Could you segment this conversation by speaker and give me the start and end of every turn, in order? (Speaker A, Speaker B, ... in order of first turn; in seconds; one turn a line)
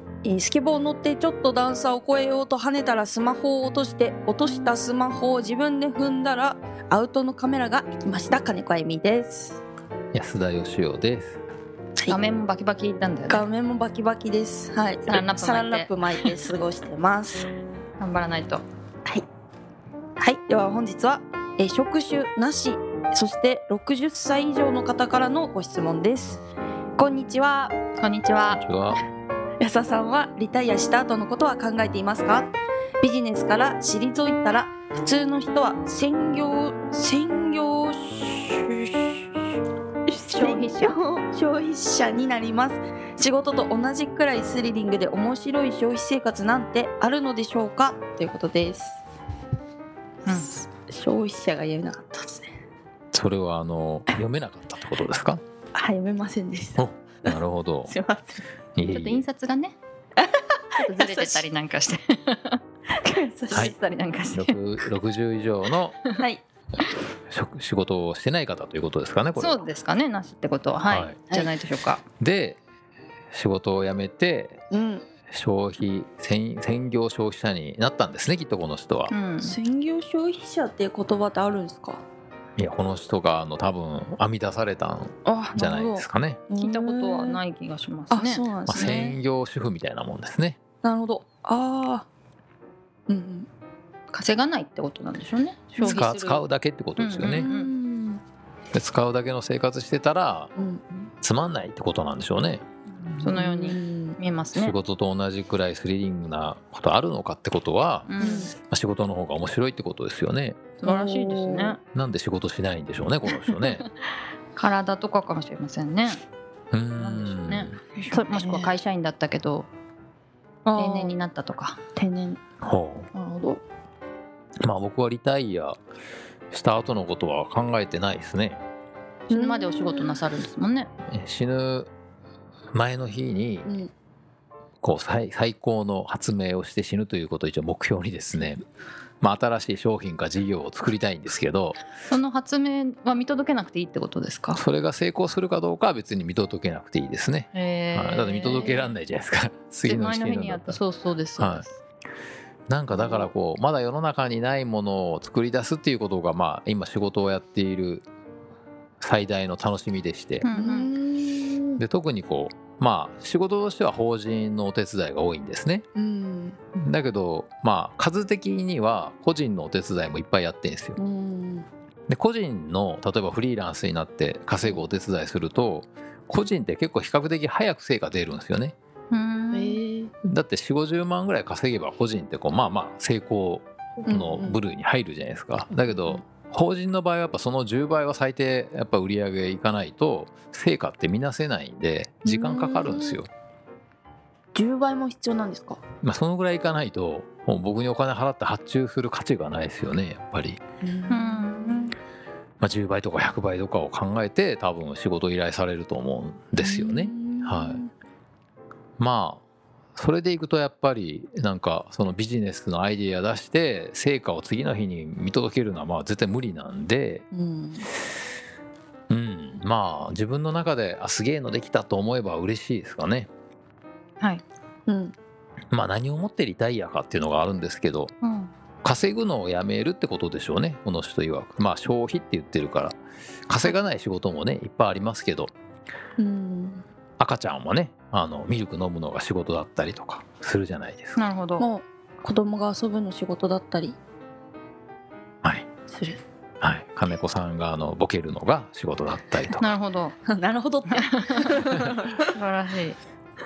Speaker A: 0.2-9.6
Speaker B: 10.1-11.4
Speaker C: 12.1-13.4
Speaker A: 13.3-17.5
Speaker C: 15.1-15.9
Speaker C: 18.0-18.6
Speaker A: 20.2-26.4
Speaker A: 27.0-27.7
Speaker C: 28.0-28.6
Speaker B: 28.5-29.0
Speaker A: 29.6-39.4
Speaker A: 40.1-49.0
Speaker C: 40.3-41.0
Speaker C: 50.2-50.5
Speaker A: 50.3-52.5
Speaker B: 53.1-55.4
Speaker A: 55.7-58.4
Speaker B: 56.8-57.9
Speaker B: 58.7-59.2
Speaker C: 58.9-59.8
Speaker A: 60.2-61.5
Speaker C: 60.8-62.6
Speaker A: 62.9-63.7
Speaker C: 63.5-64.5
Speaker B: 64.3-66.0
Speaker A: 66.2-66.4
Speaker B: 67.3-69.6
Speaker C: 69.4-72.0
Speaker B: 70.9-71.2
Speaker B: 72.2-72.6
Speaker B: 73.3-74.6
Speaker A: 74.7-75.0
Speaker B: 75.3-79.1
Speaker C: 79.1-79.6
Speaker A: 79.4-82.0
Speaker B: 82.6-86.4
Speaker A: 85.2-87.4
Speaker C: 86.6-89.0
Speaker A: 88.1-89.2
Speaker B: 88.7-90.6
Speaker A: 90.8-92.0
Speaker A: 93.1-93.5
Speaker C: 94.1-96.5
Speaker A: 95.8-96.0
Speaker B: 95.8-97.5
Speaker C: 97.0-97.7
Speaker A: 97.2-98.2
Speaker B: 98.7-100.5
Speaker A: 100.5-101.1
Speaker B: 101.2-102.6
Speaker C: 103.1-104.7
Speaker A: 103.2-104.2
Speaker B: 104.5-108.1
Speaker C: 108.0-108.5
Speaker A: 108.2-108.5
Speaker B: 108.6-110.7
Speaker C: 110.8-111.8
Speaker A: 110.8-111.8
Speaker B: 111.9-113.8
Speaker C: 114.5-116.2
Speaker B: 116.7-117.8
Speaker C: 117.0-119.7
Speaker A: 118.0-118.7
Speaker A: 120.7-121.1
Speaker C: 120.8-121.8
Speaker A: 122.0-122.4
Speaker B: 122.6-123.1
Speaker A: 123.1-123.6
Speaker B: 124.6-125.8
Speaker B: 126.5-128.6
Speaker C: 129.3-130.9
Speaker A: 129.3-130.2
Speaker B: 131.1-131.9
Speaker B: 132.7-133.7
Speaker A: 133.6-133.9
Speaker B: 134.8-138.6
Speaker B: 139.2-141.8
Speaker C: 142.1-144.6
Speaker B: 144.5-150.8
Speaker C: 147.5-148.9
Speaker C: 149.8-151.8
Speaker B: 151.4-151.6
Speaker B: 152.7-158.1
Speaker A: 152.9-153.3
Speaker B: 159.0-160.5
Speaker C: 160.4-160.9
Speaker A: 160.5-161.8
Speaker B: 161.8-165.8
Speaker A: 165.9-166.6
Speaker B: 166.7-171.0
Speaker A: 170.9-171.7
Speaker B: 172.1-178.7
Speaker C: 179.1-179.8
Speaker A: 179.5-180.1
Speaker B: 180.2-193.3
Speaker A: 184.1-184.6
Speaker A: 185.9-186.2
Speaker A: 192.2-193.2
Speaker A: 194.5-195.8
Speaker B: 196.0-200.6
Speaker A: 200.8-201.9
Speaker C: 201.1-201.9
Speaker B: 202.6-207.8
Speaker A: 206.6-207.9
Speaker B: 209.0-209.4
Speaker B: 209.9-217.2
Speaker A: 217.3-217.9
Speaker B: 219.1-223.3
Speaker A: 224.9-225.1
Speaker B: 225.7-228.1
Speaker C: 228.2-228.5
Speaker B: 228.8-233.0
Speaker B: 233.5-235.5
Speaker A: 236.2-236.8
Speaker B: 237.2-241.2
Speaker C: 241.2-241.7
Speaker A: 241.6-244.0
Speaker A: 245.9-246.2
Speaker B: 246.6-249.7
Speaker C: 249.6-250.1
Speaker A: 250.3-252.3
Speaker C: 250.9-251.5
Speaker C: 252.3-253.0